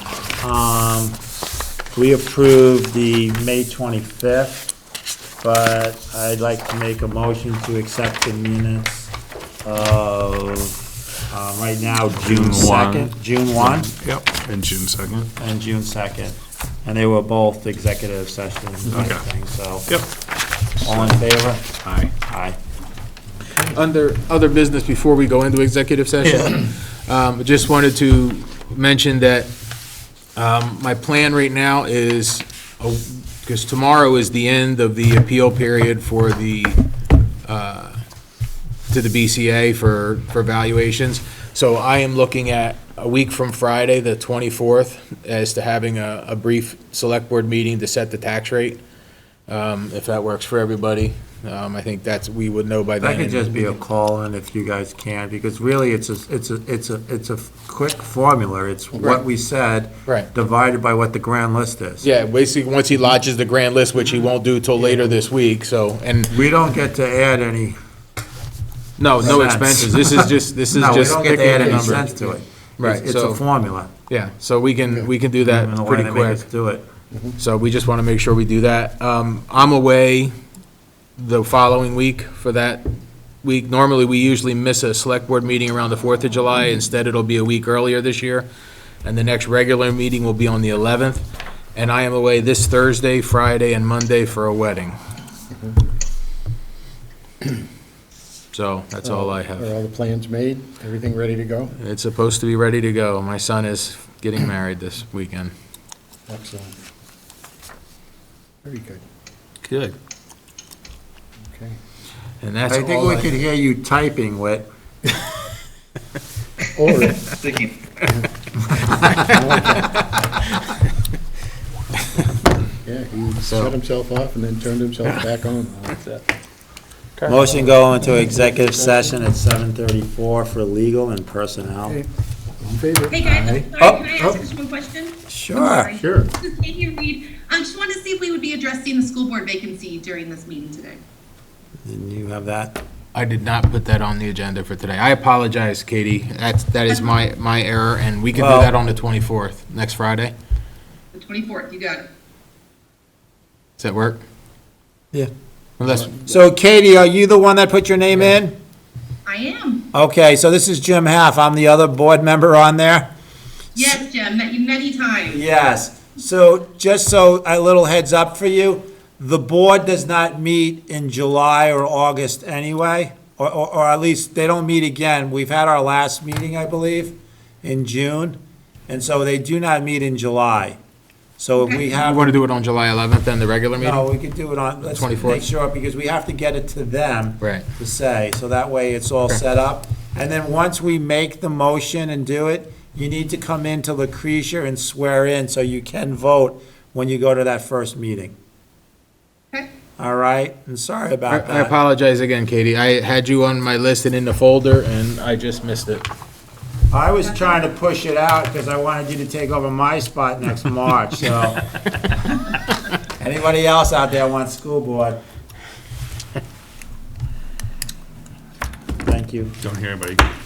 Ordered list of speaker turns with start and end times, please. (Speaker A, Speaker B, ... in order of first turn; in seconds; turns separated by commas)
Speaker A: 0.4-1.2, Speaker A: 1.9-4.7, Speaker A: 5.4-9.1, Speaker A: 9.6-13.9, Speaker B: 12.1-15.3, Speaker A: 15.3-19.9, Speaker B: 18.9-19.2, Speaker A: 20.8-21.7, Speaker B: 20.8-21.1, Speaker B: 21.8-22.1, Speaker A: 22.2-22.6, Speaker C: 23.6-29.5, Speaker C: 30.4-36.8, Speaker C: 37.5-38.0, Speaker C: 38.9-48.8, Speaker C: 49.5-53.6, Speaker A: 53.0-62.1, Speaker C: 62.0-66.4, Speaker A: 66.3-67.8, Speaker C: 69.0-72.0, Speaker A: 69.2-73.9, Speaker C: 72.8-73.4, Speaker C: 74.1-76.5, Speaker A: 75.4-76.8, Speaker D: 77.1-77.4, Speaker C: 77.4-80.3, Speaker C: 81.2-82.8, Speaker C: 83.4-88.5, Speaker C: 89.0-95.0, Speaker C: 98.5-99.7, Speaker D: 99.0-101.7, Speaker C: 101.8-105.5, Speaker D: 106.3-106.8, Speaker D: 108.6-109.0, Speaker C: 109.7-109.9, Speaker D: 111.5-111.8, Speaker C: 112.4-113.3, Speaker A: 112.7-114.7, Speaker D: 116.7-117.3, Speaker C: 119.0-120.3, Speaker D: 119.1-120.0, Speaker D: 122.8-126.0, Speaker A: 127.2-132.0, Speaker D: 132.6-133.6, Speaker E: 133.1-141.0, Speaker A: 133.8-134.1, Speaker A: 135.3-135.9, Speaker A: 141.8-142.8, Speaker C: 143.1-150.3, Speaker A: 148.3-148.7, Speaker E: 151.1-152.1, Speaker C: 153.8-154.2, Speaker C: 155.8-156.4, Speaker A: 156.2-158.5, Speaker E: 159.2-159.8, Speaker A: 159.9-163.1, Speaker E: 163.7-165.4, Speaker A: 165.3-180.8, Speaker A: 181.4-182.4, Speaker E: 181.6-181.8, Speaker C: 181.9-184.1, Speaker A: 183.8-198.3, Speaker C: 184.8-185.4, Speaker A: 200.0-201.7, Speaker C: 201.3-206.0, Speaker A: 206.9-211.7, Speaker A: 213.1-215.2, Speaker A: 219.0-219.6, Speaker B: 219.8-220.2